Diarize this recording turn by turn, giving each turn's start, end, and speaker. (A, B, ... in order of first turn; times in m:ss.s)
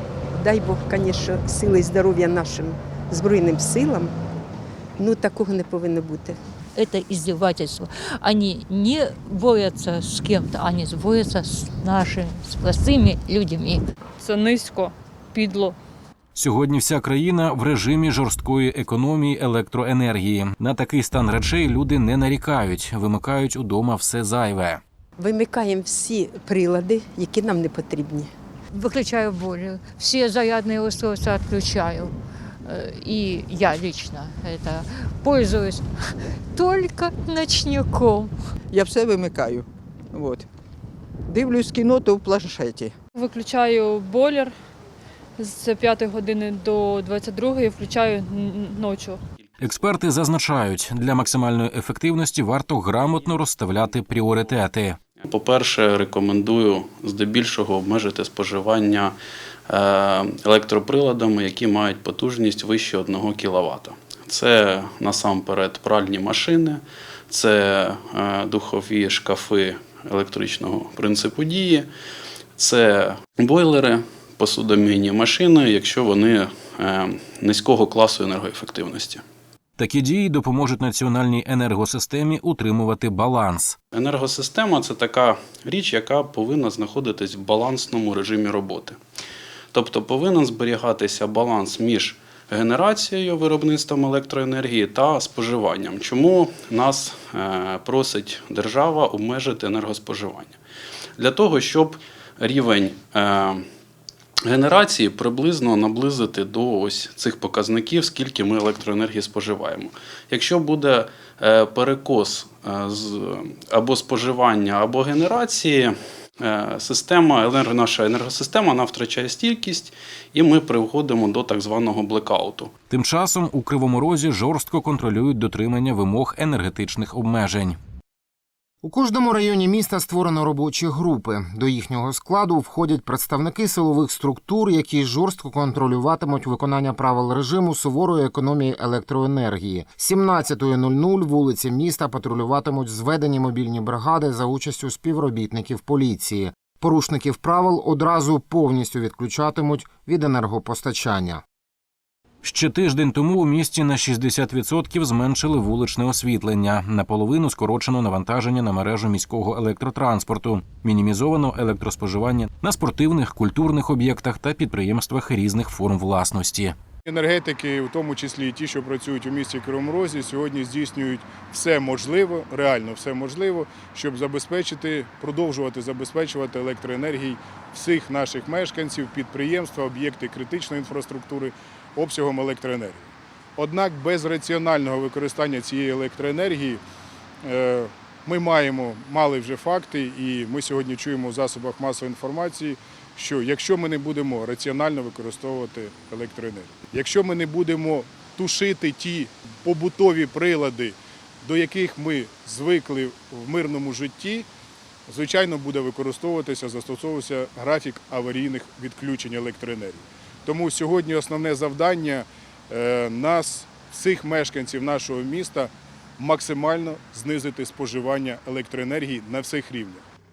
0:00.3-0:04.1 A
0:05.0-0:06.4 A
0:06.7-0:13.8 B
0:14.2-0:15.8 C
0:16.3-0:24.8 D
0:25.2-0:28.3 A
0:28.7-0:32.1 B
0:32.6-0:38.3 B
0:38.7-0:40.4 E
0:41.3-0:42.9 E
0:43.2-0:44.5 C
0:45.4-0:49.2 C
0:49.6-0:55.0 D
0:55.2-0:59.2 F
0:59.7-1:11.9 F
1:12.6-1:19.2 F
1:19.8-1:23.8 D
1:23.9-1:29.0 F
1:29.7-1:40.6 F
1:41.2-1:43.6 F
1:44.5-2:02.7 F
2:02.9-2:07.8 D
2:08.8-2:31.4 G
2:32.4-2:46.8 D
2:47.0-3:06.8 H
3:07.4-3:24.5 H
3:25.1-3:40.0 H